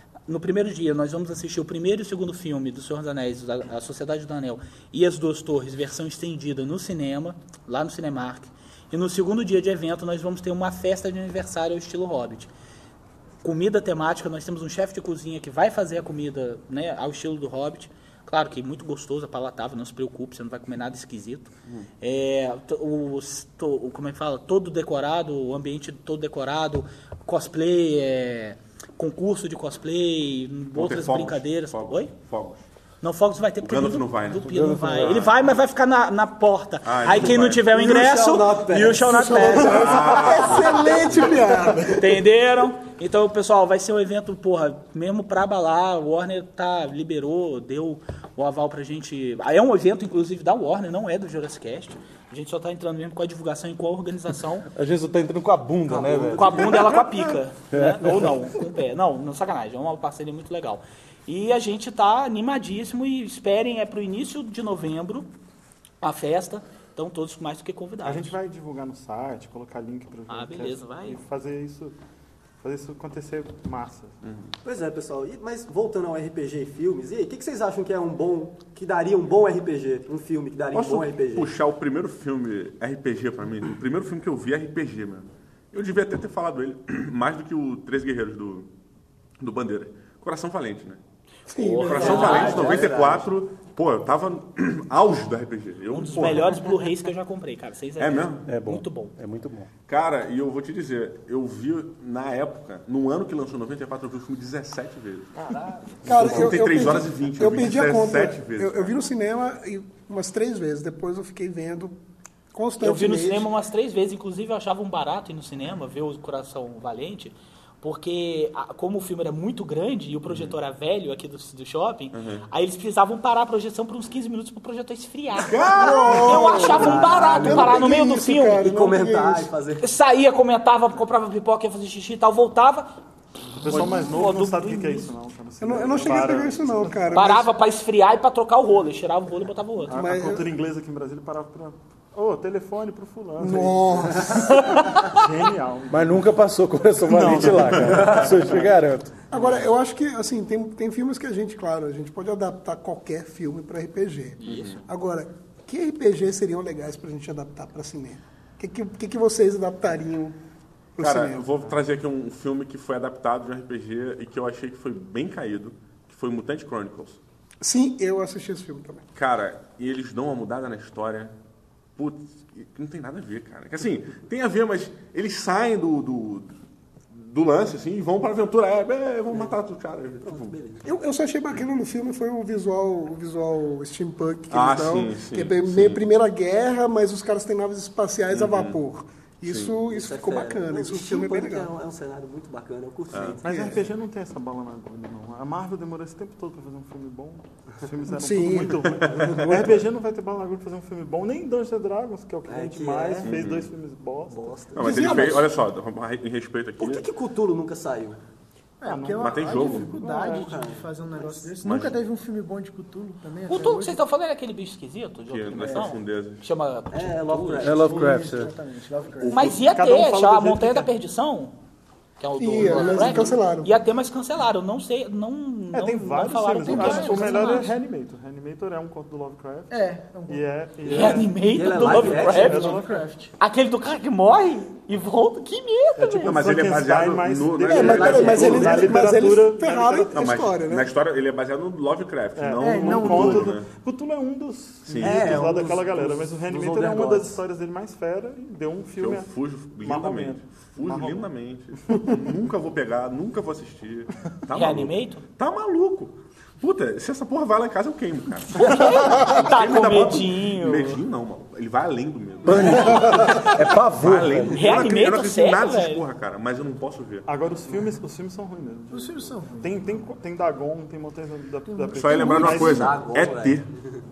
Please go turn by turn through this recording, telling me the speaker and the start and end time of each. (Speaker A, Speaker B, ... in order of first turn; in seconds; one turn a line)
Speaker A: 0.3-12.5
Speaker A: 13.4-32.1
Speaker B: 30.7-32.6
Speaker A: 33.0-40.0
Speaker B: 33.6-35.4
Speaker C: 34.4-35.2
Speaker B: 36.8-37.7
Speaker D: 37.7-41.8
Speaker E: 39.0-42.2
Speaker B: 39.6-41.1
Speaker A: 41.9-54.7
Speaker C: 54.7-56.7
Speaker D: 55.9-57.0
Speaker A: 56.4-65.3
Speaker C: 57.7-58.3
Speaker A: 66.0-68.3
Speaker F: 68.0-72.0
Speaker A: 70.3-71.2
Speaker F: 72.6-74.2
Speaker B: 74.2-74.5
Speaker D: 74.6-81.5
Speaker B: 80.7-88.7
Speaker B: 89.4-91.0
Speaker E: 91.5-92.5
Speaker A: 91.6-92.9
Speaker B: 91.6-96.7
Speaker D: 91.9-93.3
Speaker A: 95.9-99.2
Speaker B: 98.0-98.5
Speaker C: 98.5-99.7
Speaker B: 99.9-105.3
Speaker A: 105.5-106.1
Speaker B: 106.0-109.0
Speaker E: 106.0-111.9
Speaker E: 112.5-113.5
Speaker A: 112.8-128.7
Speaker B: 120.3-120.6
Speaker B: 122.1-122.5
Speaker B: 125.4-126.9
Speaker E: 125.7-129.5
Speaker D: 126.5-127.8
Speaker D: 128.6-129.9
Speaker A: 129.8-132.9
Speaker F: 133.6-137.4
Speaker A: 133.7-135.1
Speaker E: 135.6-137.5
Speaker A: 137.1-140.0
Speaker F: 139.9-146.4
Speaker E: 139.9-140.5
Speaker E: 143.4-145.0
Speaker C: 145.9-149.1
Speaker F: 147.0-148.7
Speaker E: 149.3-160.4
Speaker A: 154.4-154.8
Speaker B: 154.4-154.8
Speaker E: 161.0-161.4
Speaker B: 161.0-167.2
Speaker E: 167.6-169.1
Speaker B: 169.2-171.3
Speaker B: 172.0-176.5
Speaker B: 177.1-180.6
Speaker D: 180.2-180.8
Speaker E: 180.8-191.7
Speaker B: 184.5-186.1
Speaker B: 188.3-188.8
Speaker B: 189.5-189.8
Speaker D: 189.9-193.9
Speaker B: 193.1-193.4
Speaker F: 193.4-204.8
Speaker E: 193.4-193.8
Speaker E: 198.1-199.0
Speaker B: 199.0-199.4
Speaker D: 199.1-199.8
Speaker D: 202.5-203.4
Speaker B: 203.2-203.7
Speaker D: 204.3-205.5
Speaker B: 204.8-207.1
Speaker E: 204.8-205.5
Speaker D: 206.8-208.2
Speaker G: 208.8-214.0
Speaker F: 208.8-210.5
Speaker B: 209.2-209.9
Speaker D: 210.2-211.6
Speaker B: 211.6-212.0
Speaker A: 213.5-217.7
Speaker B: 215.3-216.5
Speaker G: 215.7-215.9
Speaker D: 216.9-218.2
Speaker C: 217.6-218.5
Speaker G: 217.7-219.6
Speaker F: 219.2-220.9
Speaker A: 219.3-221.5
Speaker A: 222.2-227.6
Speaker E: 222.4-223.7
Speaker D: 222.6-223.4
Speaker F: 225.7-231.3
Speaker G: 226.6-227.8
Speaker G: 229.7-230.5
Speaker A: 230.9-232.8
Speaker D: 231.4-232.8
Speaker F: 231.9-233.0
Speaker G: 231.9-233.3
Speaker A: 233.4-236.4
Speaker F: 236.0-240.2
Speaker B: 236.2-238.8
Speaker D: 237.7-239.1
Speaker E: 237.7-240.9
Speaker B: 240.1-243.7
Speaker F: 242.4-249.3
Speaker G: 242.6-243.6
Speaker B: 244.8-245.5
Speaker D: 245.0-247.4
Speaker B: 249.0-267.3
Speaker F: 249.8-251.3
Speaker A: 254.5-255.2
Speaker A: 258.5-261.0
Speaker C: 262.4-264.8
Speaker A: 264.5-266.0
Speaker F: 267.3-273.0
Speaker G: 268.9-270.0
Speaker G: 271.7-272.6
Speaker B: 271.9-273.7
Speaker D: 272.5-273.9